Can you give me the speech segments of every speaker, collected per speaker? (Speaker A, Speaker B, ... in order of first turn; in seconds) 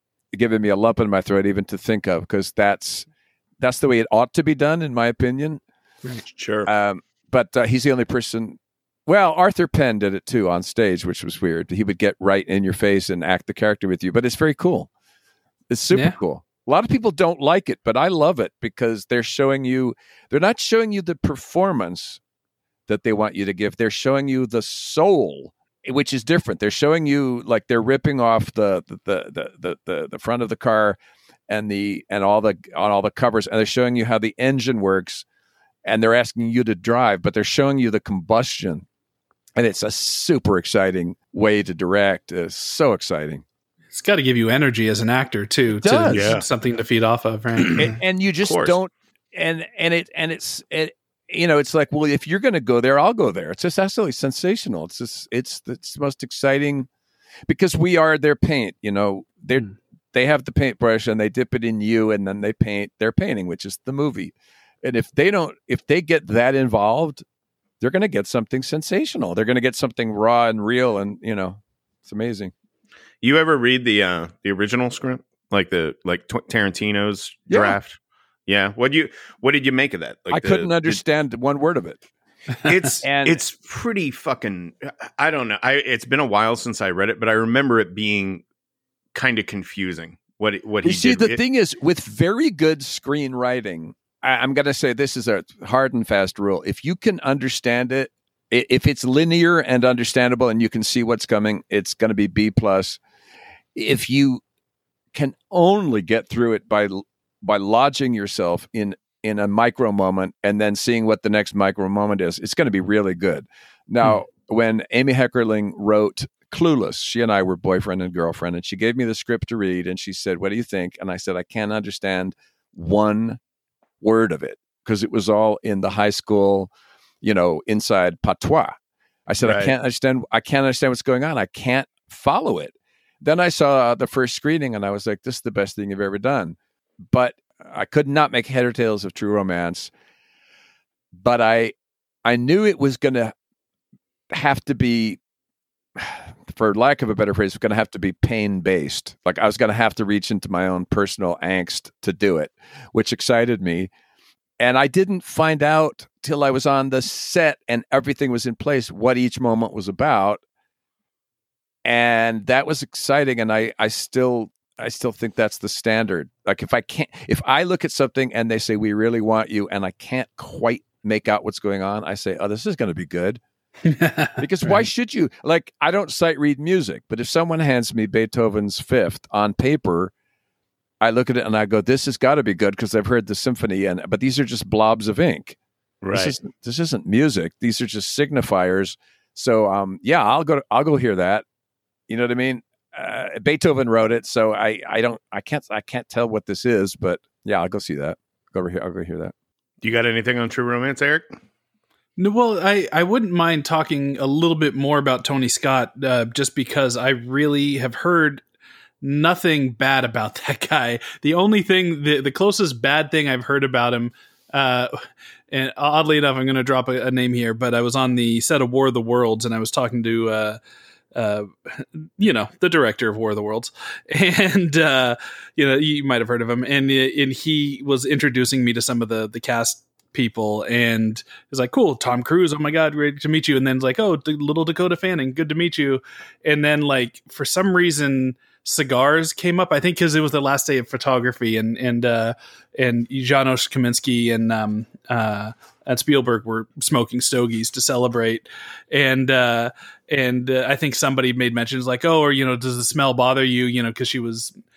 Speaker A: 0.3-3.1, 3.6-5.6, 6.7-14.9, 15.7-22.2, 22.9-31.0, 31.5-35.2, 35.8-38.8, 39.5-43.4, 45.8-46.4, 47.8-56.9, 57.5-67.2, 67.8-72.5, 77.5-77.8, 80.3-82.0, 83.0-83.4, 90.8-103.0, 103.7-104.4, 105.1-123.4, 124.0-126.7, 127.2-128.8, 129.3-139.9, 141.1-143.3, 144.3-145.2, 146.0-153.9, 154.6-160.4, 161.8-173.4, 174.4-180.1, 181.0-185.6, 186.1-191.4, 192.1-199.3
Speaker B: 6.3-6.7, 46.1-46.4, 48.4-48.7, 73.2-81.0, 82.6-88.4, 89.1-91.4, 129.4-129.7, 186.0-186.3, 199.8-201.3
Speaker C: 15.9-16.2, 43.9-48.0, 173.8-174.8, 202.2-208.4, 209.0-214.9, 215.5-220.6, 221.1-254.5